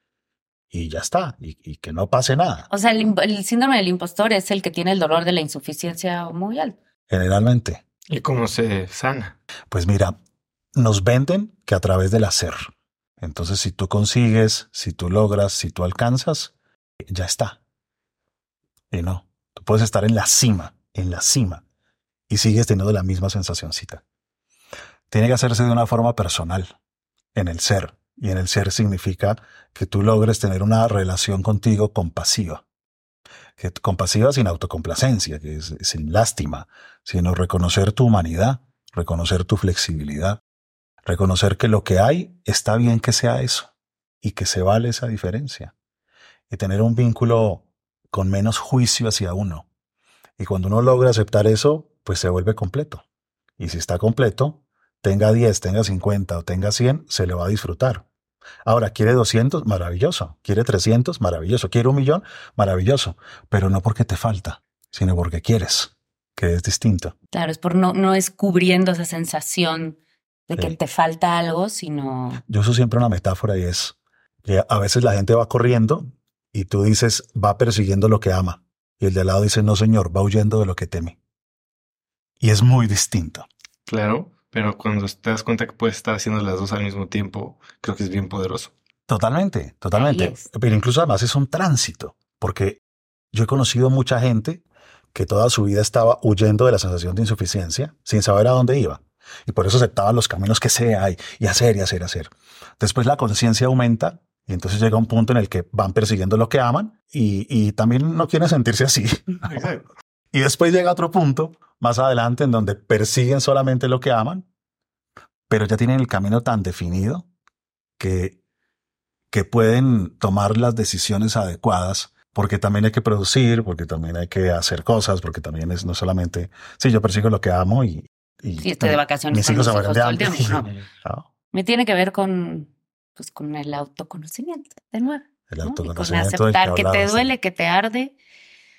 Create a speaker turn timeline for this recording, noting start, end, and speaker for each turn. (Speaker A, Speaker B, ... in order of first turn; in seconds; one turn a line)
Speaker A: 0.7-2.7
Speaker B: 2.7-6.8
Speaker A: 7.1-7.8
Speaker C: 8.1-9.3
Speaker A: 9.7-10.2
Speaker A: 10.7-16.5
Speaker A: 17.1-17.6
Speaker A: 18.9-21.6
Speaker A: 22.3-24.0
Speaker A: 25.1-26.7
Speaker A: 27.3-32.6
Speaker A: 33.6-40.4
Speaker A: 41.0-43.7
Speaker A: 44.2-45.7
Speaker A: 46.5-49.7
Speaker A: 50.4-53.0
Speaker A: 53.6-58.0
Speaker A: 58.6-67.1
Speaker B: 67.3-70.0
Speaker B: 70.5-72.4
Speaker A: 72.5-81.2
Speaker A: 82.4-83.5
Speaker C: 83.9-88.7
Speaker A: 89.1-92.8
Speaker B: 89.9-90.4
Speaker A: 93.3-94.6
Speaker A: 95.1-109.7
Speaker C: 109.5-109.8
Speaker A: 110.3-114.5
Speaker A: 115.5-117.3
Speaker A: 118.0-118.4
Speaker A: 119.3-131.3
Speaker B: 128.6-130.7
Speaker B: 131.5-138.1
Speaker A: 135.5-137.3